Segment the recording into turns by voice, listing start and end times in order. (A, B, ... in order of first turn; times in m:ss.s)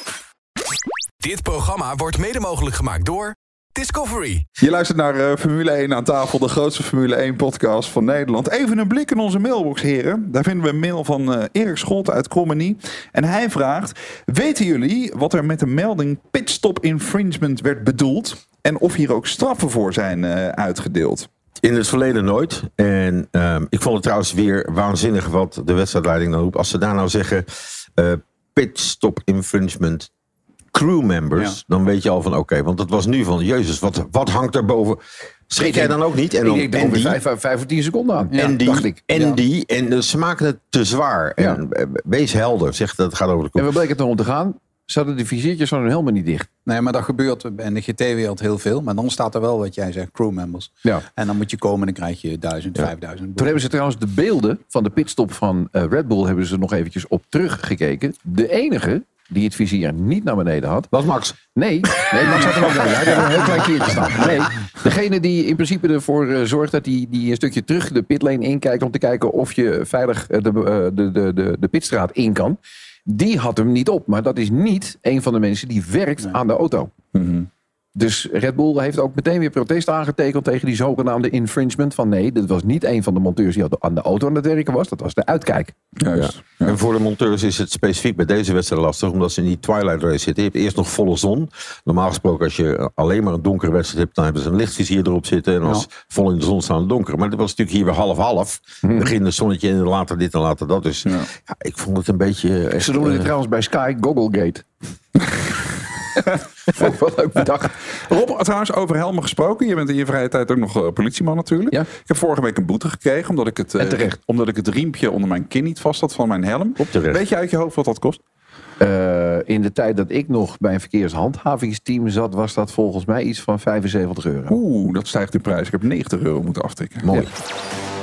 0:01.2-0:04.4 A
0:04.6-0:21.3 B
0:21.6-0:30.1 C
0:30.7-0:37.2 C
0:35.6-0:39.4 D
0:38.3-0:38.6 E
0:38.3-0:43.7 C
0:43.6-0:46.5 D
0:46.6-0:53.5 E
0:53.4-1:00.9 D
1:00.9-1:01.4 C
1:01.5-1:16.9 D
1:01.9-1:04.2 C
1:17.1-1:17.5 B
1:18.0-1:25.7 D
1:26.0-1:26.8 B
1:26.1-1:43.3 C
1:38.8-1:39.1 D
1:42.8-1:44.6 D
1:46.2-1:47.8 D
1:48.1-1:58.2 B
1:53.8-1:54.1 D
1:56.8-1:57.2 C
1:58.8-2:04.6 D
2:04.5-2:07.1 B
2:07.0-2:07.3 C